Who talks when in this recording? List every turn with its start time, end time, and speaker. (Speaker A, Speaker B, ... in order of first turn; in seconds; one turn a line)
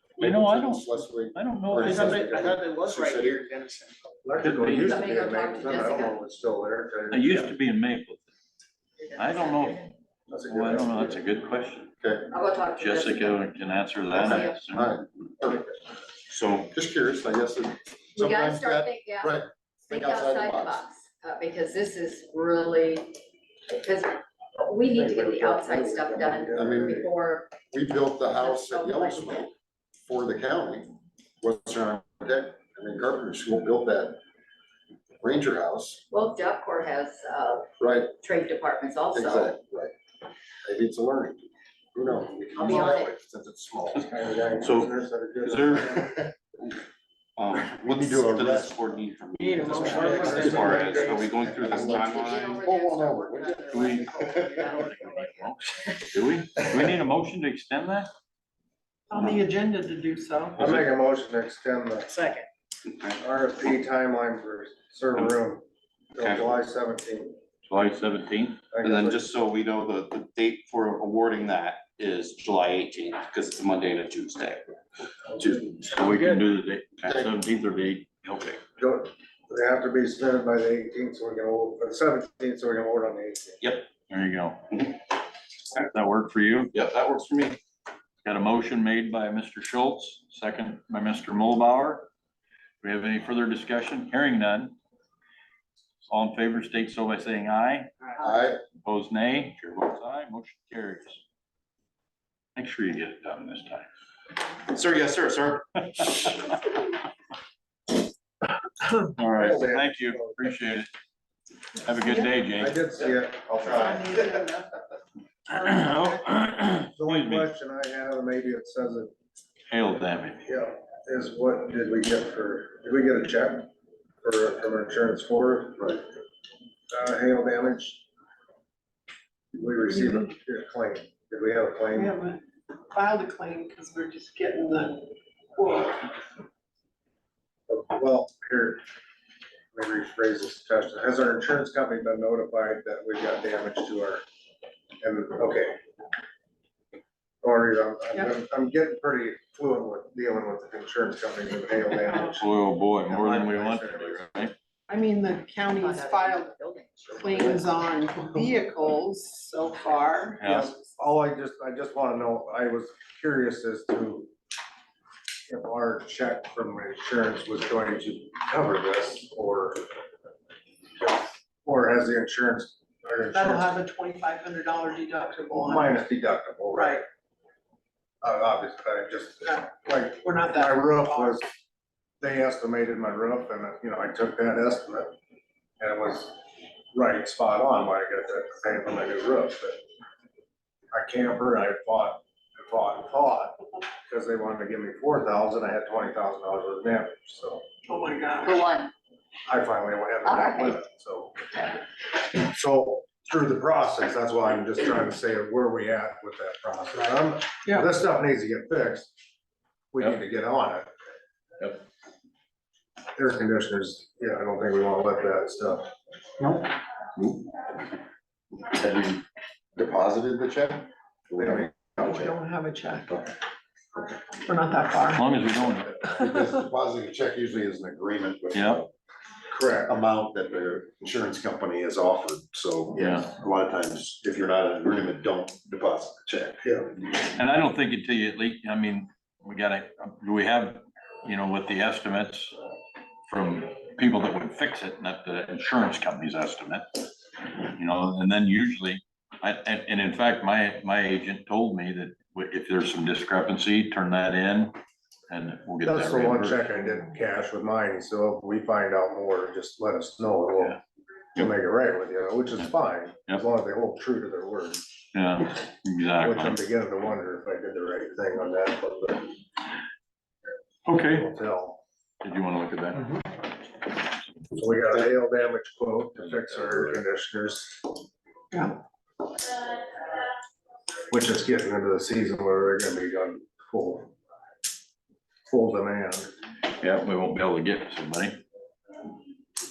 Speaker A: 0.2-3.5
Speaker B: 0.2-2.3
Speaker C: 1.8-4.1
Speaker D: 4.2-7.5
Speaker B: 4.4-5.0
Speaker E: 4.7-6.2
Speaker B: 7.1-8.3
Speaker E: 9.0-9.9
Speaker B: 9.2-9.9
Speaker D: 10.3-11.1
Speaker B: 10.5-11.9
Speaker A: 12.0-12.3
Speaker E: 12.3-13.4
Speaker B: 12.8-14.9
Speaker E: 14.1-14.6
Speaker A: 14.7-15.7
Speaker F: 16.3-16.7
Speaker A: 16.7-20.8
Speaker E: 18.1-27.5
Speaker D: 24.8-27.1
Speaker A: 26.5-27.0
Speaker A: 27.7-29.5
Speaker E: 28.3-29.5
Speaker A: 30.0-34.2
Speaker A: 35.2-36.0
Speaker E: 36.1-37.7
Speaker A: 37.8-38.1
Speaker E: 38.2-39.5
Speaker A: 39.1-39.9
Speaker A: 40.6-44.1
Speaker E: 42.5-43.1
Speaker D: 44.0-46.1
Speaker F: 44.6-46.8
Speaker F: 47.4-52.7
Speaker A: 47.8-48.8
Speaker G: 49.4-50.9
Speaker D: 49.8-52.0
Speaker A: 49.9-50.6
Speaker C: 49.9-50.3
Speaker C: 50.8-51.3
Speaker A: 51.4-54.7
Speaker E: 51.9-56.2
Speaker B: 53.7-58.1
Speaker G: 59.1-60.7
Speaker D: 60.6-62.1
Speaker C: 62.1-62.5
Speaker D: 63.2-65.6
Speaker D: 66.1-67.3
Speaker F: 66.2-66.6
Speaker B: 67.7-68.6
Speaker D: 68.7-69.3
Speaker F: 68.8-74.7
Speaker F: 75.4-75.8
Speaker D: 75.4-76.3
Speaker B: 75.8-78.6
Speaker D: 78.8-83.6
Speaker F: 83.6-83.8
Speaker B: 84.1-84.7
Speaker B: 85.8-86.7
Speaker F: 86.7-87.6
Speaker B: 88.2-92.1
Speaker B: 92.8-94.7
Speaker B: 96.1-97.9
Speaker A: 98.2-98.6
Speaker B: 98.8-101.2
Speaker B: 102.5-103.9
Speaker F: 104.7-106.4
Speaker B: 109.2-110.9
Speaker D: 109.3-110.4
Speaker B: 111.8-112.8
Speaker G: 112.0-112.3
Speaker D: 112.5-114.4
Speaker G: 113.6-114.8
Speaker G: 115.5-116.3
Speaker B: 115.5-117.5
Speaker D: 117.0-119.1
Speaker B: 119.7-120.4
Speaker D: 120.5-123.7
Speaker D: 124.2-126.0
Speaker D: 126.9-128.0
Speaker D: 129.5-132.1
Speaker G: 129.8-130.3
Speaker G: 131.9-136.1
Speaker D: 137.7-138.8
Speaker D: 139.7-144.2
Speaker D: 145.0-145.8
Speaker D: 147.4-152.5
Speaker B: 152.3-154.5
Speaker D: 153.1-154.3
Speaker G: 154.9-156.5
Speaker E: 155.7-157.6
Speaker G: 157.1-160.4
Speaker B: 160.4-160.7
Speaker D: 160.4-164.3
Speaker D: 165.5-169.8
Speaker D: 171.0-173.7
Speaker G: 173.3-176.0
Speaker D: 175.5-177.0
Speaker G: 176.7-177.0
Speaker D: 178.2-181.5
Speaker G: 179.4-181.4
Speaker D: 182.2-185.1
Speaker D: 185.8-186.3
Speaker D: 186.9-189.8
Speaker D: 190.9-193.6
Speaker D: 194.1-197.6
Speaker G: 197.9-198.6
Speaker E: 198.4-198.9
Speaker D: 199.5-201.7
Speaker E: 200.2-200.8
Speaker D: 202.3-209.1
Speaker G: 207.7-207.9
Speaker D: 209.9-210.9
Speaker D: 213.2-215.9
Speaker A: 218.6-219.2
Speaker A: 219.8-222.3
Speaker D: 221.4-222.1
Speaker G: 222.0-223.2
Speaker G: 224.4-225.3
Speaker B: 225.0-226.2
Speaker G: 226.0-226.4
Speaker A: 226.2-228.9
Speaker B: 228.5-228.8
Speaker D: 229.5-229.9
Speaker A: 229.8-236.6
Speaker B: 232.9-233.3
Speaker D: 236.6-236.9
Speaker B: 237.1-242.5
Speaker B: 243.3-246.9
Speaker B: 247.7-254.8
Speaker B: 255.3-256.8
Speaker D: 255.8-260.8
Speaker D: 261.4-264.8
Speaker B: 265.1-266.6
Speaker D: 266.2-269.3
Speaker B: 270.9-271.3
Speaker D: 271.1-271.8
Speaker B: 272.2-273.1
Speaker D: 274.5-277.9
Speaker A: 276.6-277.0
Speaker G: 278.5-278.8
Speaker D: 281.1-284.1
Speaker D: 285.5-286.3
Speaker B: 286.8-288.4